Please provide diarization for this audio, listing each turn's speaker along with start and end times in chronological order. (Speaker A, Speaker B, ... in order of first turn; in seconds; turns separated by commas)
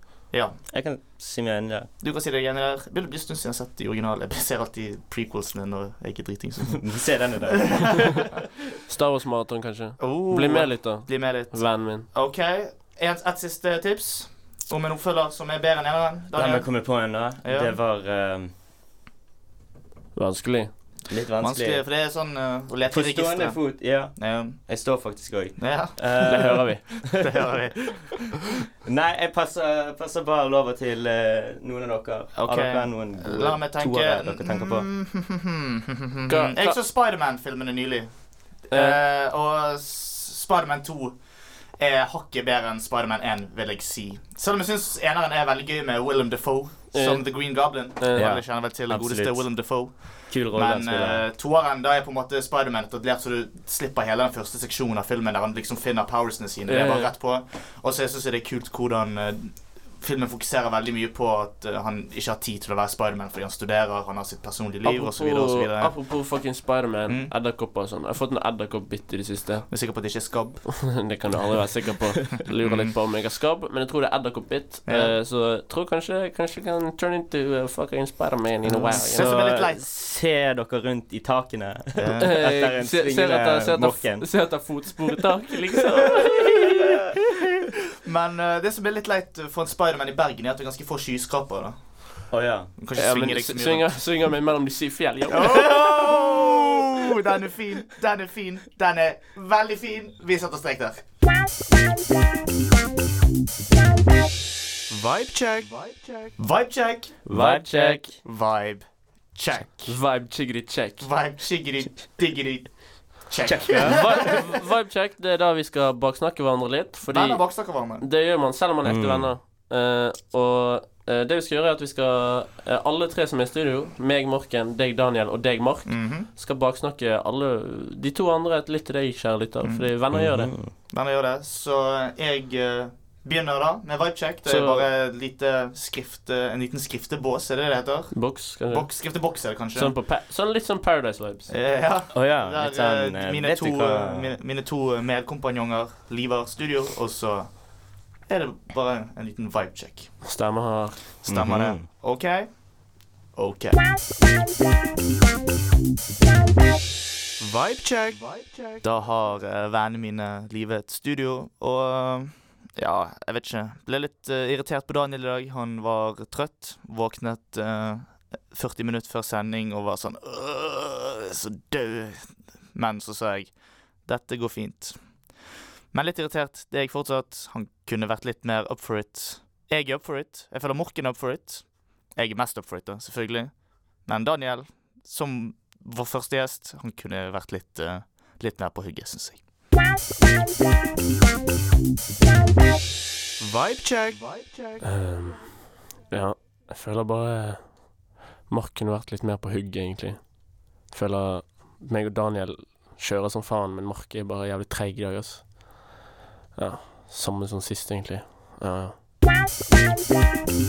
Speaker A: 0.3-0.6, Speaker B: 0.7-1.9, Speaker A: 2.0-8.4, Speaker B: 6.7-8.2, Speaker C: 8.9-12.1, Speaker A: 10.0-17.8, Speaker B: 16.3-18.5, Speaker C: 20.1-20.7, Speaker B: 21.1-21.8, Speaker A: 21.4-24.6, Speaker B: 22.9-27.2, Speaker A: 25.6-28.4, Speaker C: 26.2-26.8, Speaker B: 28.9-34.9, Speaker A: 32.3-41.2, Speaker C: 36.3-36.8, Speaker C: 38.7-39.0, Speaker A: 41.8-66.0, Speaker C: 46.9-47.3, Speaker C: 48.0-48.3, Speaker B: 48.2-49.5, Speaker B: 50.3-51.2, Speaker C: 56.7-57.1, Speaker C: 64.8-69.7, Speaker A: 67.1-67.3, Speaker A: 69.7-70.9, Speaker C: 70.8-79.7, Speaker A: 72.6-72.9, Speaker A: 74.9-75.2, Speaker B: 78.7-84.3, Speaker A: 78.9-79.8, Speaker A: 82.0-82.3, Speaker C: 82.2-87.0, Speaker A: 88.0-91.8, Speaker B: 92.3-92.7, Speaker A: 92.8-93.9, Speaker C: 93.0-95.7, Speaker A: 95.3-101.0, Speaker D: 104.9-106.4, Speaker A: 106.4-107.2, Speaker B: 107.3-108.2, Speaker C: 107.3-108.1, Speaker A: 108.2-110.0, Speaker C: 109.8-111.1, Speaker A: 111.0-114.4, Speaker B: 113.4-114.3, Speaker C: 113.7-117.4, Speaker A: 117.1-118.0, Speaker C: 118.0-130.5, Speaker B: 118.8-119.3, Speaker A: 125.9-126.3, Speaker A: 129.6-129.9, Speaker B: 130.1-130.7, Speaker A: 130.9-140.0, Speaker C: 134.5-134.9, Speaker C: 138.1-138.9, Speaker C: 139.8-141.5, Speaker A: 141.5-150.2, Speaker B: 142.1-144.3, Speaker C: 150.2-151.0, Speaker A: 151.2-152.7, Speaker B: 151.3-151.8, Speaker A: 153.3-153.9, Speaker D: 157.4-158.9, Speaker A: 158.8-173.5, Speaker A: 174.1-175.0, Speaker A: 175.9-189.4, Speaker D: 193.4-194.9, Speaker C: 194.8-197.9, Speaker C: 198.5-205.6, Speaker C: 206.6-208.9